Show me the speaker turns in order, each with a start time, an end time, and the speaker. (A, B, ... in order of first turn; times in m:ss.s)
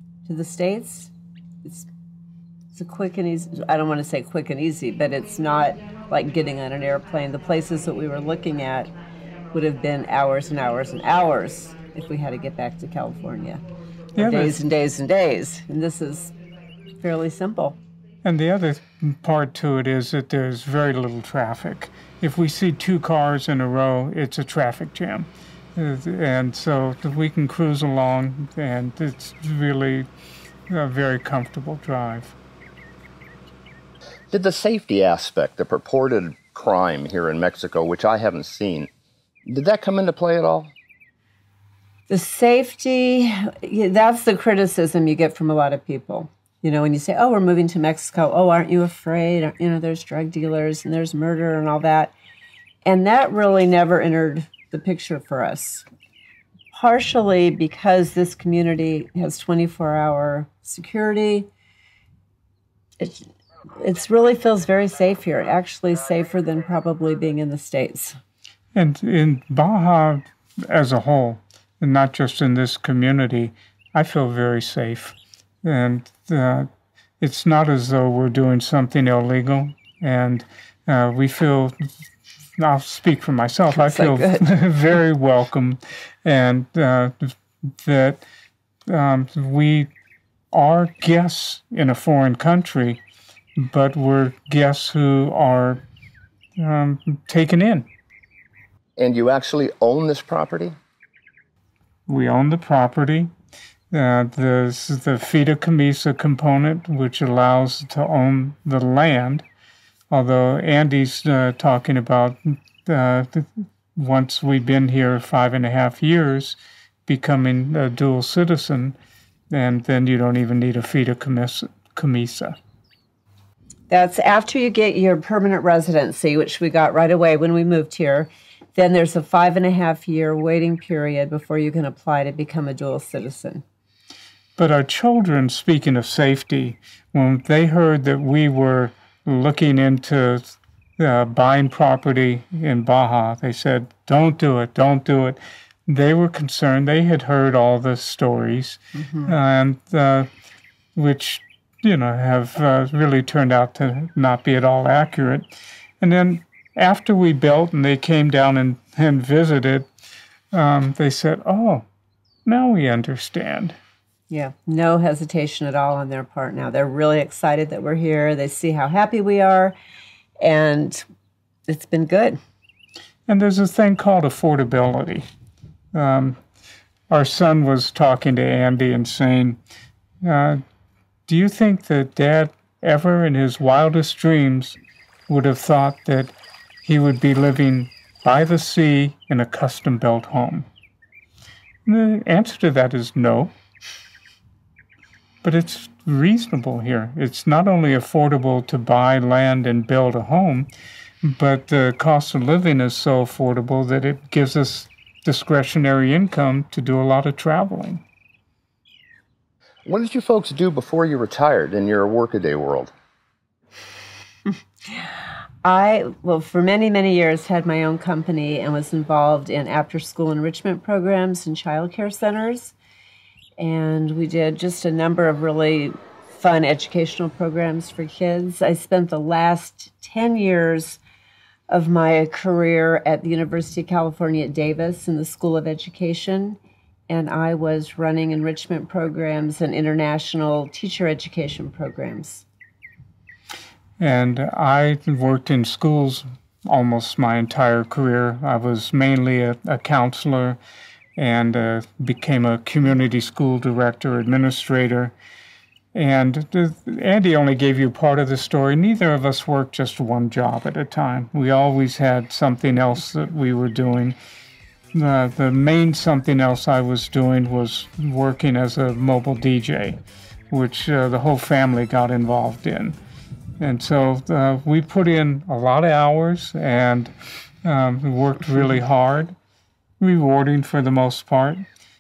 0:00.2-0:01.1 A
0:02.7-0:08.9 A
0:09.5-0:13.6 A
0:14.2-0:14.6 B
0:14.2-0:16.4 A
0:17.0-0:17.8 A
0:18.2-0:30.1 B
0:30.7-0:32.4 B
0:34.3-0:38.9 C
0:39.5-0:40.7 C
0:42.1-0:52.1 A
0:52.8-0:55.9 A
0:56.7-1:01.5 A
1:03.0-1:08.2 A
1:08.8-1:16.7 B
1:17.2-1:21.9 B
1:22.6-1:28.2 B
1:23.7-1:24.5 A
1:28.9-1:29.9 B
1:30.5-1:33.0 B
1:33.6-1:35.8 B
1:36.6-1:37.9 B
1:39.0-1:40.8 C
1:42.1-1:43.3 B
1:43.9-1:49.5 B
1:50.1-1:59.0 B
1:59.5-2:02.6 B
2:03.9-2:13.6 A
2:14.6-2:30.3 B
2:31.0-2:39.9 B
2:40.5-2:41.9 B
2:42.5-2:43.8 B
2:44.3-2:49.8 A
2:50.4-2:51.0 A
2:51.7-2:52.4 A
2:53.3-2:55.3 B
2:55.9-2:56.4 B
2:57.1-2:59.6 B
3:00.2-3:00.6 B
3:01.3-3:04.8 B
3:05.3-3:10.7 B
3:11.9-3:13.5 B
3:15.4-3:20.7 B
3:21.2-3:28.0 B
3:29.9-3:32.9 C
3:35.6-3:42.8 A
3:43.6-3:51.0 A
3:51.7-3:56.6 A
3:57.1-4:02.5 A
4:04.0-4:10.6 B
4:11.2-4:15.1 B
4:15.9-4:24.2 B
4:24.9-4:30.0 B
4:30.5-4:33.0 B
4:33.6-4:37.1 B
4:37.6-4:39.4 B
4:40.0-4:41.6 B